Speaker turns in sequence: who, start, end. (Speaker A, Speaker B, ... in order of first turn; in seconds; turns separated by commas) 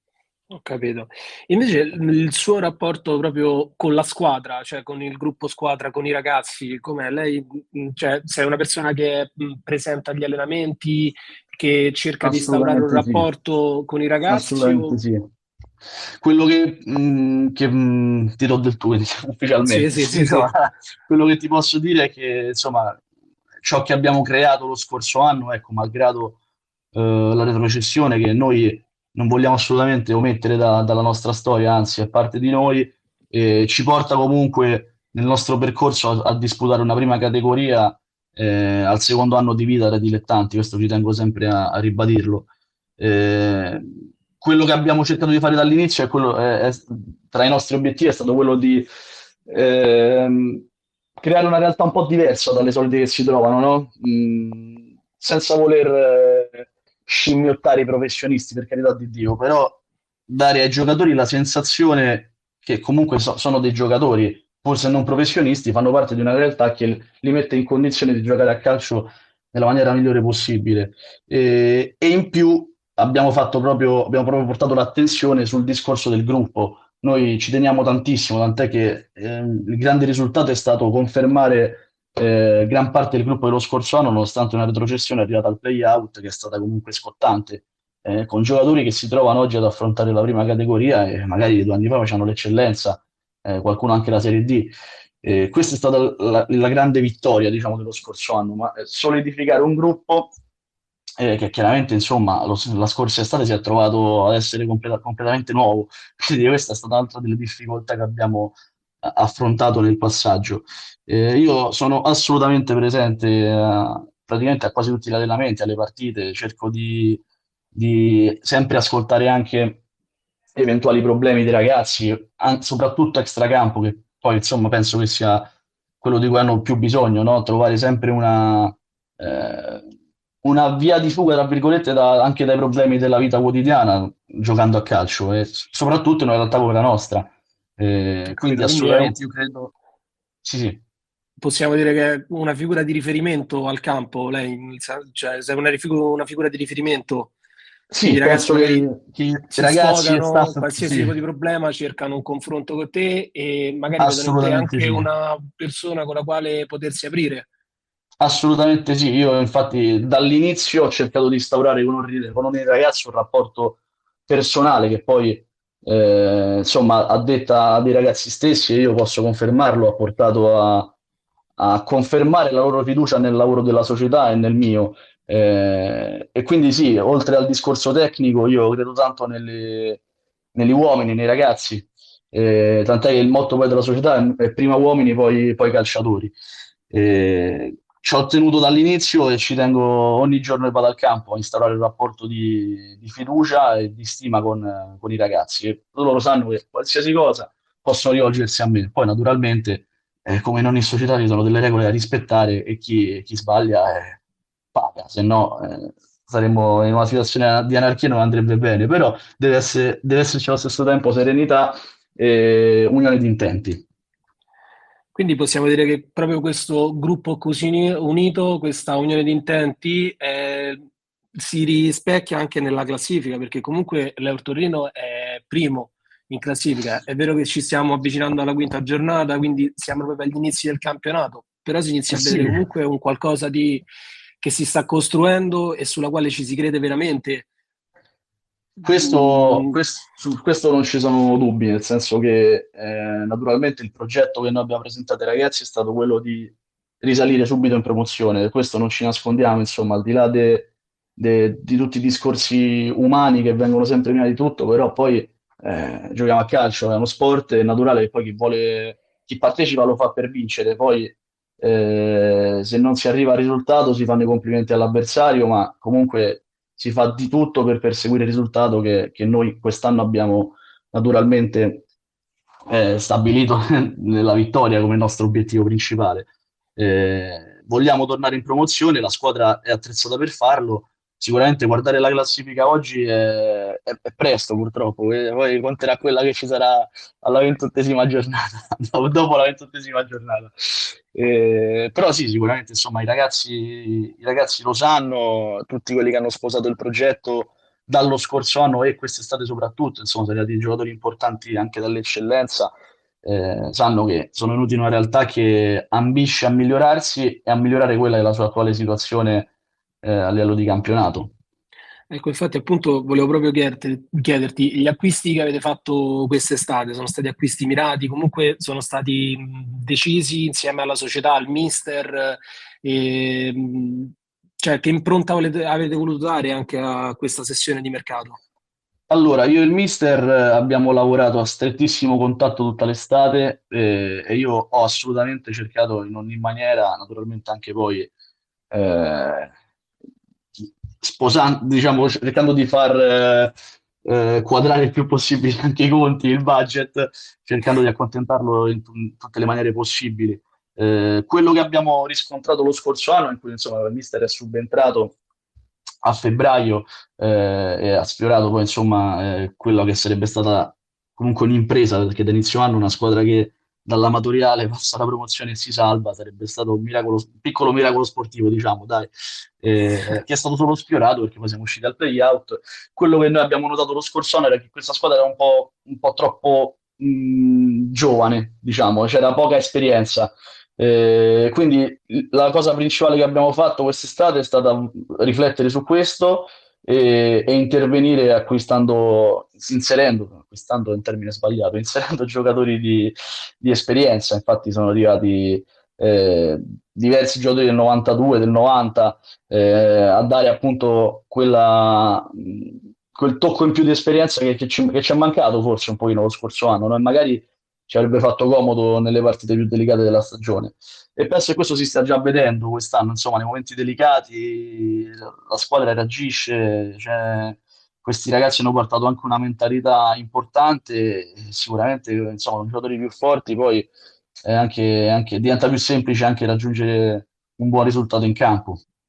Speaker A: 0.5-15.0, Speaker B: 12.2-13.3, Speaker B: 14.3-15.2, Speaker B: 16.2-23.0, Speaker A: 19.6-20.5, Speaker B: 23.6-26.4, Speaker B: 26.9-43.8, Speaker B: 44.4-48.9, Speaker B: 49.5-50.6, Speaker B: 51.2-100.3, Speaker B: 101.2-119.8, Speaker B: 120.5-125.5, Speaker B: 126.0-129.9, Speaker B: 130.4-139.7, Speaker A: 138.3-139.2, Speaker B: 140.4-140.8, Speaker A: 141.4-147.3, Speaker B: 147.9-151.1, Speaker A: 148.0-148.8, Speaker A: 149.5-157.5, Speaker B: 154.0-155.1, Speaker B: 158.2-170.9, Speaker B: 171.6-180.0, Speaker B: 180.5-186.3, Speaker B: 186.9-204.2, Speaker B: 204.7-213.8, Speaker A: 215.1-220.8, Speaker A: 221.4-233.9, Speaker B: 232.1-232.6, Speaker A: 234.4-237.5, Speaker B: 238.8-271.8, Speaker A: 238.8-239.8, Speaker B: 272.7-309.5, Speaker B: 310.0-311.3, Speaker A: 312.1-328.4, Speaker B: 329.1-338.1, Speaker B: 338.7-339.5, Speaker B: 340.6-355.2, Speaker B: 356.0-423.9, Speaker B: 424.4-428.8